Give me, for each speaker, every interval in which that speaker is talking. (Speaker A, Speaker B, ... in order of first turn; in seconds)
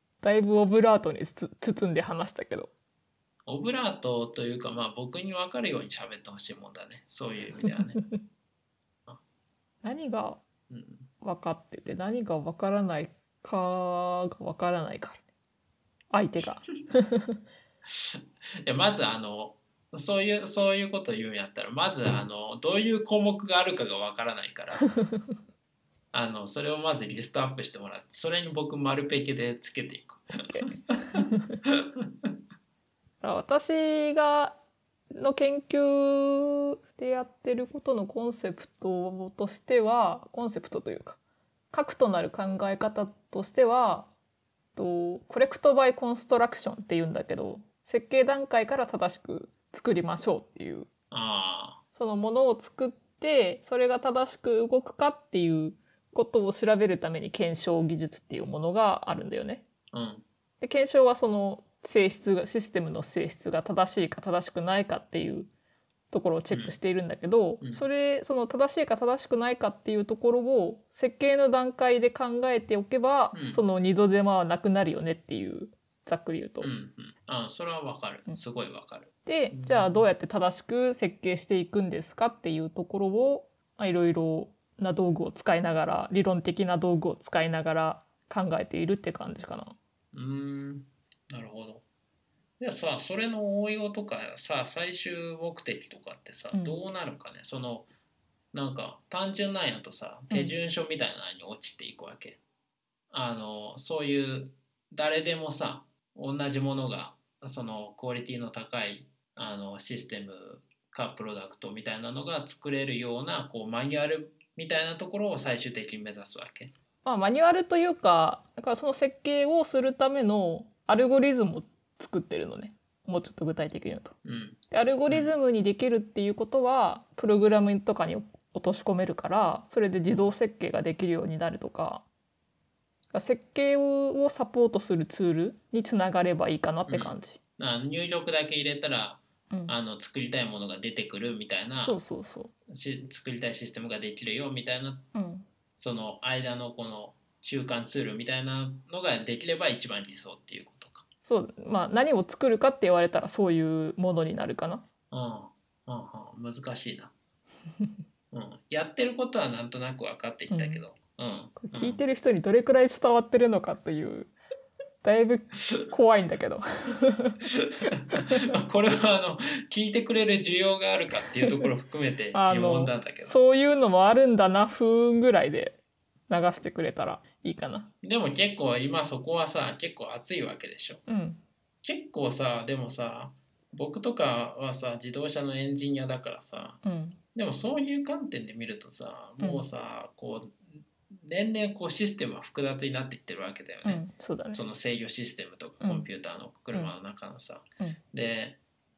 Speaker A: 0.2-2.7, 7.6-8.1, 9.8-10.4, 11.2-15.2, 16.1-17.4, 30.4-31.6, 33.2-34.6, 35.1-41.2, 41.7-44.1, 44.8-50.9, 51.9-59.6, 60.6-65.5, 66.1-76.7, 79.3-89.8, 96.5-96.8, 100.3-100.6, 117.0-124.2, 124.7-132.1, 133.1-137.4, 141.8-142.5, 145.1-145.5, 151.2-154.8, 160.5-160.8, 161.6-164.3, 165.0-167.4, 168.1-168.5, 171.4-171.7, 172.3-177.9, 181.1-181.4, 186.8-187.2, 189.4-189.7, 193.8-194.6, 195.8-196.1
Speaker B: 3.5-8.0, 10.7-11.1, 17.9-25.0, 26.1-32.3, 51.1-51.8, 59.9-60.2, 66.5-66.8, 67.6-67.9, 73.3-73.6, 76.6-80.1, 90.1-91.8, 92.6-97.9, 98.5-102.4, 103.1-116.7, 124.2-125.3, 136.9-142.0, 142.7-145.1, 145.8-151.1, 155.1-157.1, 158.3-162.0, 167.4-173.4, 178.0-181.0, 181.8-186.8, 187.3-198.6